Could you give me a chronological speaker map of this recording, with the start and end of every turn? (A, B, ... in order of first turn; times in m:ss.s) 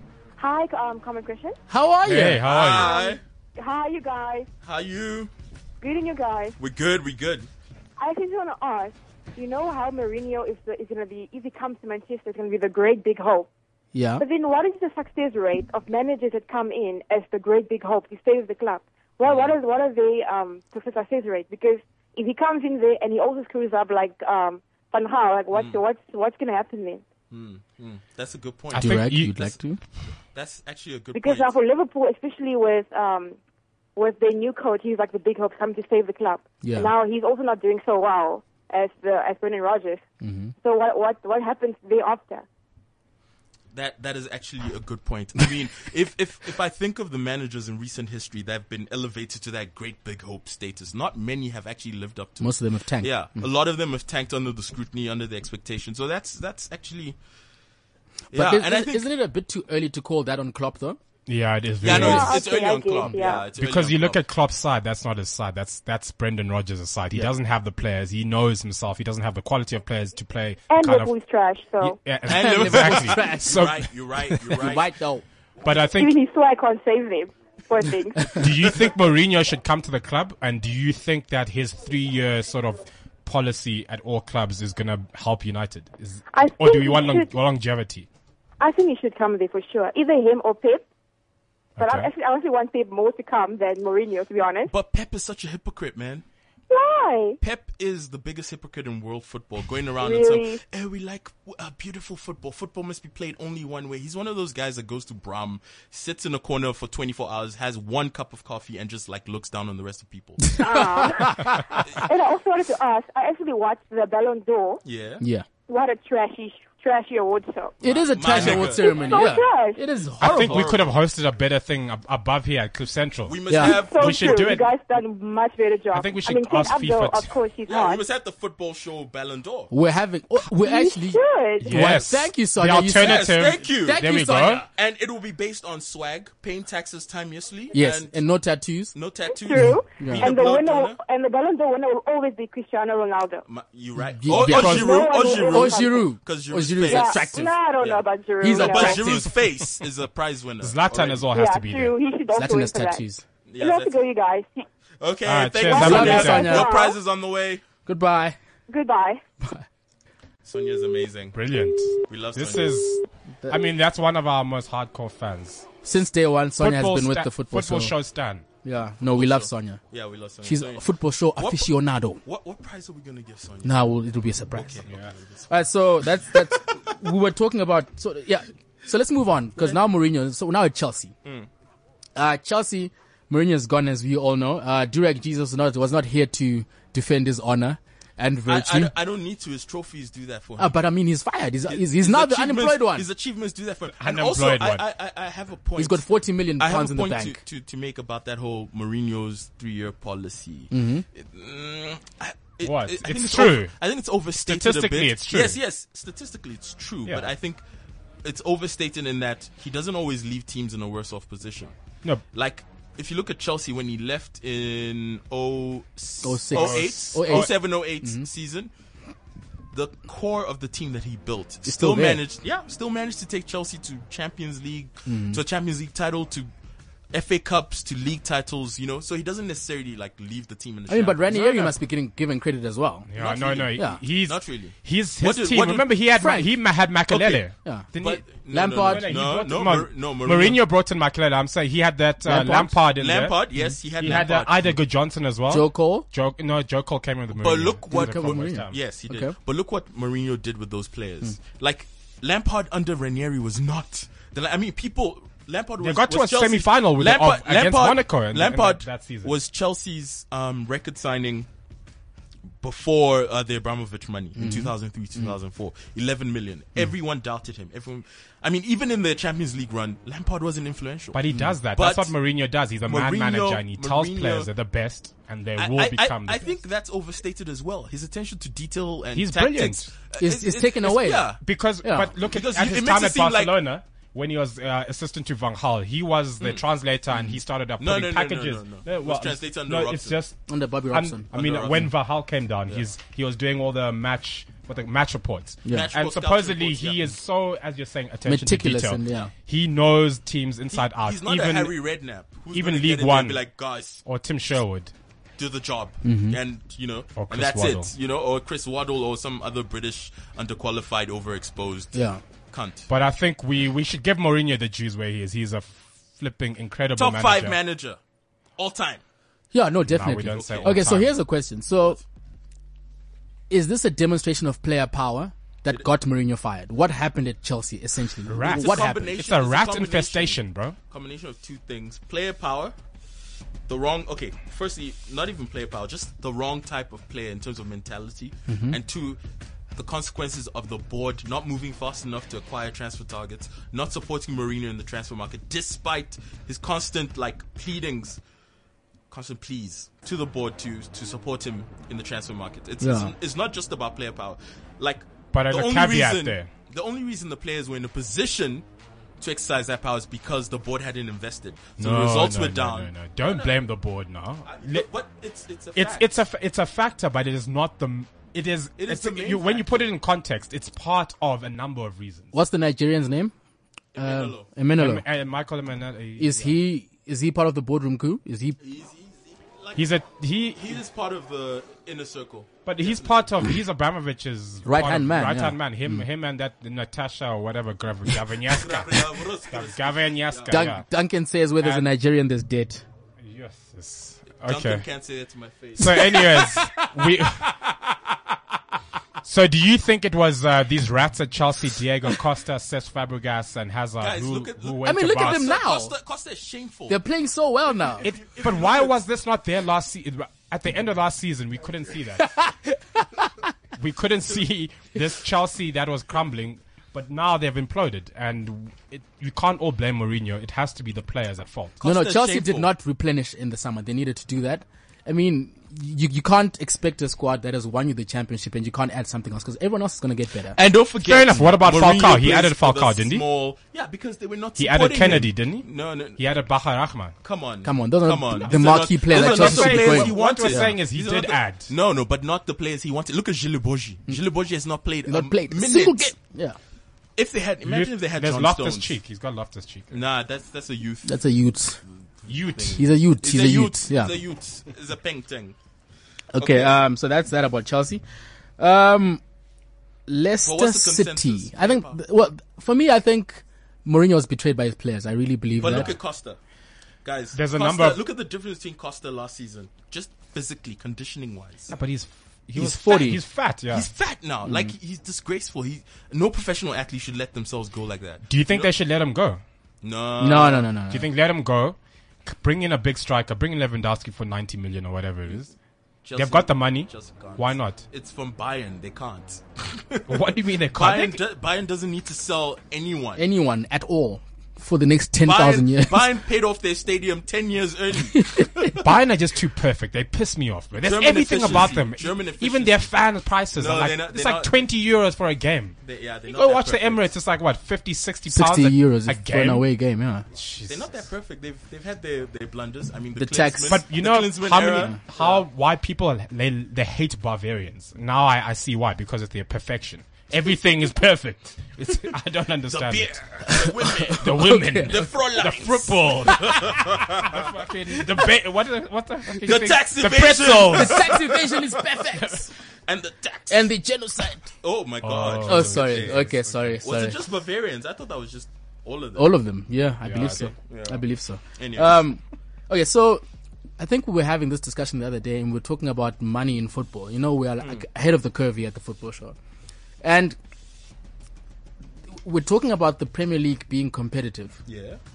0:00.4-0:01.6 A
0:01.7-0:02.4 B
0:02.0-0:02.9 C
0:02.4-0:03.2 D
0:02.6-0:04.5 A
0:04.6-0:05.3 D
0:05.8-0:06.6 A
0:06.6-0:07.5 D
0:08.0-0:13.5 A
0:13.9-0:14.2 B
0:14.2-0:27.0 A
0:19.2-0:19.6 D
0:25.5-0:25.8 D
0:27.3-0:29.5 D
0:28.7-0:29.6 C
0:28.7-0:29.8 B
0:30.3-0:31.6 D
0:31.1-0:33.4 A
0:34.0-0:40.0 A
0:36.6-0:36.9 B
0:40.2-0:40.5 B
0:40.6-0:42.5 A
0:43.7-0:57.2 D
0:52.4-0:53.2 B
0:58.3-0:59.1 D
0:58.3-1:01.0 B
1:01.3-1:02.4 C
1:01.8-1:04.2 D
1:01.9-1:03.5 A
1:01.9-1:02.3 B
1:03.6-1:11.1 C
1:10.7-1:12.0 A
1:11.8-1:14.5 C
1:12.2-1:14.9 D
1:12.3-1:13.7 B
1:14.5-1:15.2 B
1:15.6-1:16.2 C
1:15.9-1:18.4 A
1:18.3-1:28.1 C
1:26.3-1:27.3 A
1:28.6-1:30.9 A
1:31.8-1:32.1 C
1:31.8-1:34.7 A
1:34.7-1:36.2 D
1:36.7-1:37.4 A
1:37.4-1:50.6 D
1:40.0-1:40.6 A
1:50.4-1:51.8 B
1:50.6-1:54.8 A
1:54.8-1:55.2 D
1:55.2-1:55.5 B
1:55.7-1:57.8 A
1:57.8-1:59.4 D
1:57.8-2:00.8 B
1:58.3-1:58.7 C
1:58.4-1:59.8 A
2:00.2-2:04.7 C
2:00.2-2:01.0 D
2:03.3-2:04.5 D
2:03.5-2:03.8 B
2:03.6-2:08.0 A
2:05.9-2:07.4 C
2:07.7-2:09.7 D
2:09.7-2:14.6 B
2:10.6-2:11.8 A
2:11.6-2:14.6 C
2:12.9-2:18.2 D
2:17.7-2:19.0 B
2:18.9-2:21.0 D
2:19.3-2:23.4 A
2:19.5-2:20.3 B
2:23.5-2:27.2 D
2:24.1-2:27.6 B
2:24.4-2:24.8 C
2:24.4-2:26.1 A
2:26.8-2:29.1 A
2:27.8-2:31.3 D
2:28.4-2:29.3 B
2:29.2-2:29.6 C
2:30.6-2:32.0 C
2:31.3-2:33.0 A
2:32.3-2:33.2 B
2:33.5-2:34.0 D
2:33.6-2:34.7 A
2:35.0-2:37.6 D
2:35.3-2:36.6 C
2:35.6-2:37.0 A
2:35.7-2:36.7 B
2:37.9-2:38.4 B
2:38.7-2:39.2 A
2:40.4-2:41.4 D
2:41.3-2:45.7 C
2:42.1-2:42.8 D
2:45.8-2:48.0 B
2:46.6-2:48.4 C
2:48.6-2:49.8 B
2:49.1-2:50.8 D
2:50.4-2:52.2 B
2:51.4-2:51.7 D
2:52.2-2:54.0 D
2:53.6-2:54.8 B
2:54.5-2:55.5 D
2:55.5-3:01.1 B
3:02.2-3:08.9 B
3:08.5-3:10.8 D
3:10.6-3:13.1 B
3:11.7-3:16.0 D
3:14.0-3:14.8 C
3:15.8-3:17.4 B
3:16.6-3:27.6 D
3:20.7-3:21.0 B
3:22.6-3:23.7 C
3:24.4-3:25.6 C
3:28.2-3:31.7 D
3:32.3-3:38.7 D
3:36.2-3:38.3 B
3:36.5-3:37.5 C
3:39.7-3:46.5 D
3:41.7-3:42.2 B
3:45.1-3:45.4 B
3:47.1-3:51.8 D
3:50.9-3:53.1 B
3:53.1-4:08.8 C
3:53.2-3:55.9 D
3:53.8-3:54.0 B
3:56.2-3:56.5 B
3:57.1-3:57.4 D
3:58.0-4:00.6 D
3:58.5-3:59.1 B
4:02.3-4:02.8 B
4:02.9-4:04.8 D
4:05.5-4:06.1 B
4:07.3-4:21.5 D
4:07.9-4:09.4 B
4:15.8-4:19.4 C
4:22.6-4:32.1 D
4:24.4-4:24.7 B
4:31.1-4:36.5 C
4:32.9-4:34.5 D
4:35.6-4:41.4 D
4:39.2-4:39.9 C
4:40.2-4:42.1 B
4:41.4-5:01.8 C
4:42.2-4:43.6 D
4:46.4-4:46.6 D
4:47.8-4:50.2 D
4:50.5-4:51.3 B
4:51.3-4:51.9 D
4:55.6-4:55.9 B
4:55.7-4:57.0 D
4:58.3-4:59.3 B
5:00.7-5:04.0 D
5:02.5-5:03.4 C
5:04.0-5:04.9 C
5:05.4-5:12.9 D
5:06.0-5:06.4 B
5:07.2-5:07.9 C
5:11.9-5:12.2 B
5:12.9-5:17.6 C
5:17.0-5:18.0 D
5:18.6-5:19.0 D
5:19.5-5:22.0 B
5:19.9-5:21.1 C
5:20.3-5:21.0 D
5:23.5-5:29.2 B
5:28.3-5:30.8 C
5:28.4-5:32.8 D
5:33.7-5:39.2 D
5:38.5-5:38.8 B
5:39.7-5:48.2 D
5:49.1-5:58.6 D
5:52.8-5:53.1 B
5:55.3-5:56.5 C
5:59.2-6:03.6 D
6:01.8-6:04.9 C
6:04.4-6:06.1 D
6:05.8-6:12.3 C
6:08.8-6:09.9 D
6:12.3-6:13.3 B
6:13.9-6:14.5 D
6:14.0-6:15.0 B
6:14.8-6:16.6 C
6:16.2-6:18.6 B
6:18.6-6:19.8 D
6:19.8-6:20.8 C
6:20.5-6:23.3 D
6:22.7-6:30.8 C
6:24.6-6:26.0 B
6:28.4-6:30.6 D
6:30.5-6:32.8 B
6:31.6-6:31.9 C
6:33.2-6:34.9 C
6:34.4-6:36.8 D
6:35.8-6:38.0 C
6:39.2-6:45.5 C
6:44.0-6:47.0 D
6:44.8-6:45.9 B
6:46.9-6:48.1 B
6:48.0-6:49.0 D
6:48.0-6:52.4 C
6:52.2-6:53.5 B
6:53.8-7:01.8 C
7:01.8-7:02.7 D
7:01.8-7:10.6 B
7:10.5-7:16.2 D
7:11.0-7:13.2 C
7:14.6-7:17.2 C
7:17.2-7:26.1 D
7:17.6-7:20.7 B
7:18.4-7:21.7 C
7:25.1-7:26.6 B
7:27.2-7:29.0 D
7:27.6-7:30.0 C
7:29.9-7:31.1 D
7:31.0-7:31.8 B
7:32.2-7:35.6 D
7:32.3-7:32.8 C
7:32.8-7:34.2 B
7:36.3-7:38.0 B
7:36.4-7:36.8 D
7:38.6-7:39.2 B
7:40.1-7:45.9 B
7:40.4-7:42.0 D
7:45.6-7:46.4 D
7:45.6-7:45.9 C
7:47.0-7:51.7 D
7:47.3-7:48.0 C
7:51.7-7:53.9 C
7:52.6-7:53.2 B
7:53.7-7:58.7 D
7:54.4-7:54.7 B
7:58.3-7:59.4 C
7:59.8-8:00.7 D
8:00.2-8:01.0 B
8:00.9-8:05.5 C
8:06.0-8:13.2 D
8:06.2-8:07.8 C
8:10.1-8:11.2 C
8:13.2-8:16.1 B
8:15.2-8:18.8 D
8:18.1-8:18.7 B
8:18.8-8:25.8 C
8:20.8-8:22.9 D
8:23.6-8:24.6 D
8:25.8-8:27.1 D
8:26.3-8:29.7 C
8:28.3-8:30.2 B
8:30.3-8:30.9 C
8:30.7-8:35.4 D
8:33.2-8:33.8 B
8:33.7-8:43.4 C
8:42.7-8:47.6 D
8:43.5-8:45.0 B
8:44.1-8:51.2 C
8:49.4-8:51.4 D
8:50.7-8:52.5 B
8:52.8-8:53.7 D
8:53.5-8:54.4 B
8:54.5-8:56.3 D
8:55.0-8:56.8 C
8:55.4-8:57.2 B
8:56.8-8:59.3 D
8:59.2-9:03.2 B
9:00.1-9:00.5 C
9:00.5-9:01.0 D
9:01.6-9:02.0 D
9:03.8-9:09.4 B
9:10.0-9:10.4 B
9:12.2-9:14.6 B
9:14.7-9:15.0 D